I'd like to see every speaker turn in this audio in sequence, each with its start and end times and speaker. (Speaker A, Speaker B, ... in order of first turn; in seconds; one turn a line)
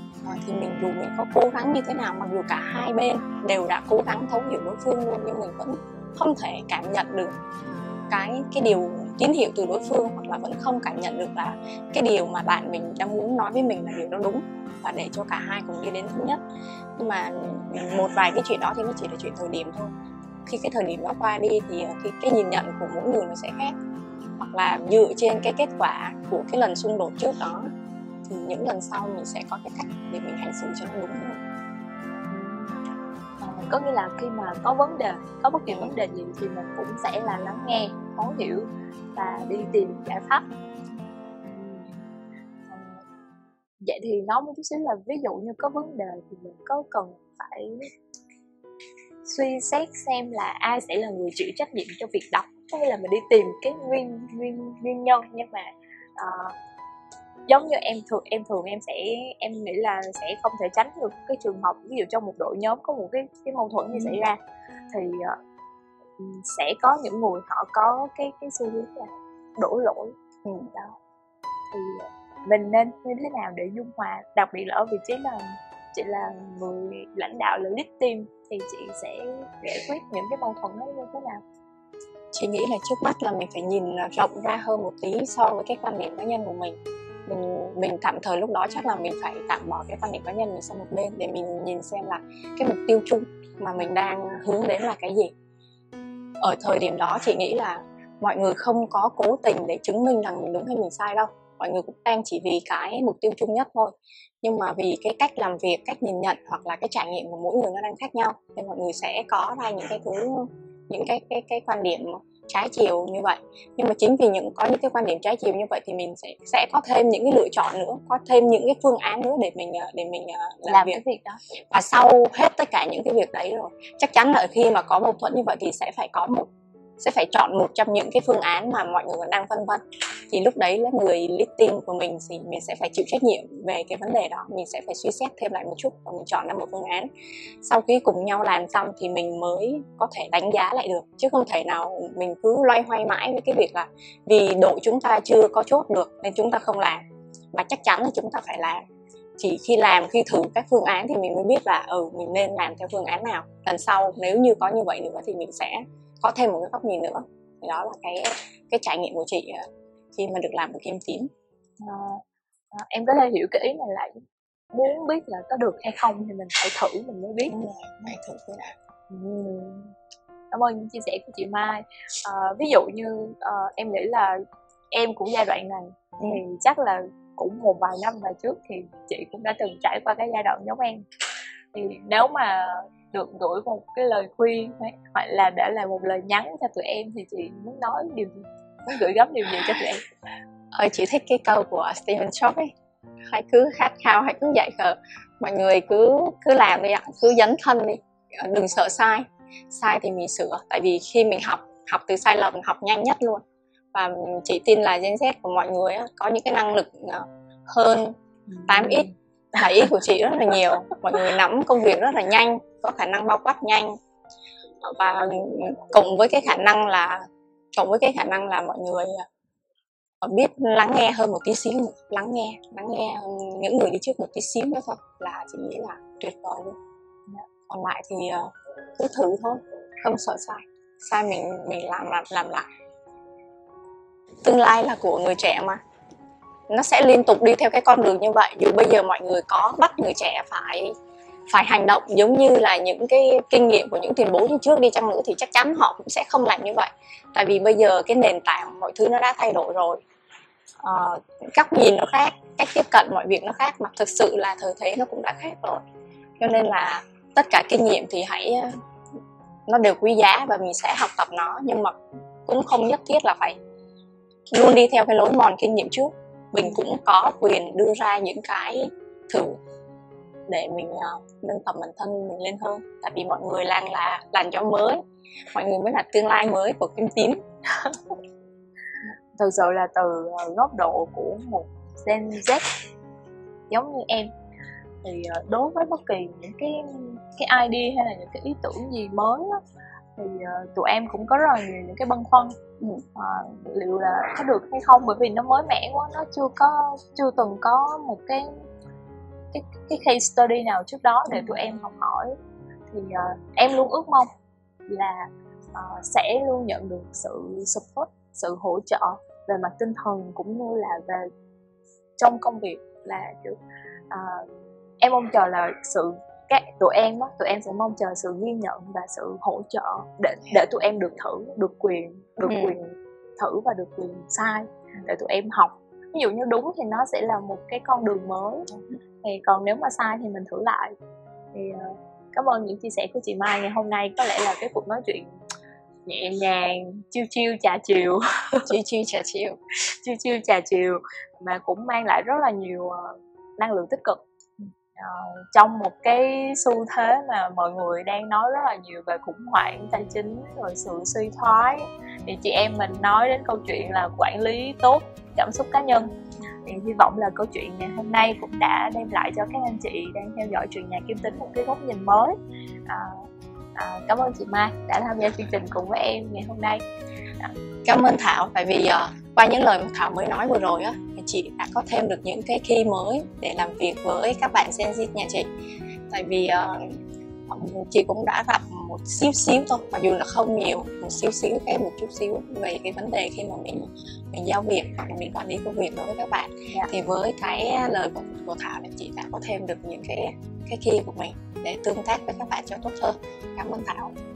Speaker A: 0.2-7.4
Speaker A: 8.1-16.4
Speaker A: 17.0-19.9
Speaker A: 20.5-23.8
Speaker A: 24.4-27.7
Speaker A: 28.3-31.4
Speaker B: 32.3-32.8
Speaker B: 33.4-40.5
Speaker A: 35.7-35.9
Speaker B: 41.4-42.1
Speaker B: 42.7-43.0
Speaker B: 43.8-47.8
Speaker B: 49.2-56.5
Speaker B: 57.5-64.4
Speaker B: 64.9-65.3
Speaker B: 66.2-70.1
Speaker A: 70.5-70.7
Speaker B: 71.7-81.4
Speaker A: 82.3-95.3
Speaker A: 96.4-121.0
Speaker B: 120.7-121.4
Speaker A: 121.7-126.5
Speaker A: 127.0-137.1
Speaker A: 137.6-148.8
Speaker A: 149.4-161.3
Speaker B: 161.8-164.2
Speaker B: 164.7-167.6
Speaker A: 167.5-168.8
Speaker B: 169.1-169.9
Speaker B: 170.5-174.4
Speaker B: 174.9-181.1
Speaker B: 181.7-190.0
Speaker A: 190.7-192.7
Speaker A: 193.3-203.4
Speaker A: 203.9-208.2
Speaker B: 208.5-209.1
Speaker A: 208.7-213.9
Speaker A: 214.8-219.3
Speaker A: 220.2-226.8
Speaker A: 227.7-232.7
Speaker A: 234.4-235.8
Speaker A: 236.7-240.9
Speaker A: 241.5-250.0
Speaker A: 250.8-255.8
Speaker A: 256.4-258.8
Speaker A: 259.7-261.9
Speaker A: 262.4-263.6
Speaker A: 264.5-269.6
Speaker A: 270.5-275.0
Speaker A: 275.5-277.4
Speaker B: 277.8-278.1
Speaker B: 279.4-282.7
Speaker B: 283.7-284.3
Speaker B: 285.0-289.6
Speaker B: 290.2-292.6
Speaker B: 293.1-298.6
Speaker B: 299.5-302.4
Speaker B: 302.9-304.3
Speaker B: 304.9-311.3
Speaker B: 312.2-313.6
Speaker B: 314.1-314.5
Speaker B: 315.0-328.7
Speaker A: 322.4-322.8
Speaker B: 329.2-330.9
Speaker B: 331.5-335.4
Speaker B: 336.1-338.7
Speaker A: 338.7-339.6
Speaker B: 339.9-356.1
Speaker B: 356.6-366.8
Speaker A: 367.9-375.5
Speaker A: 376.1-394.1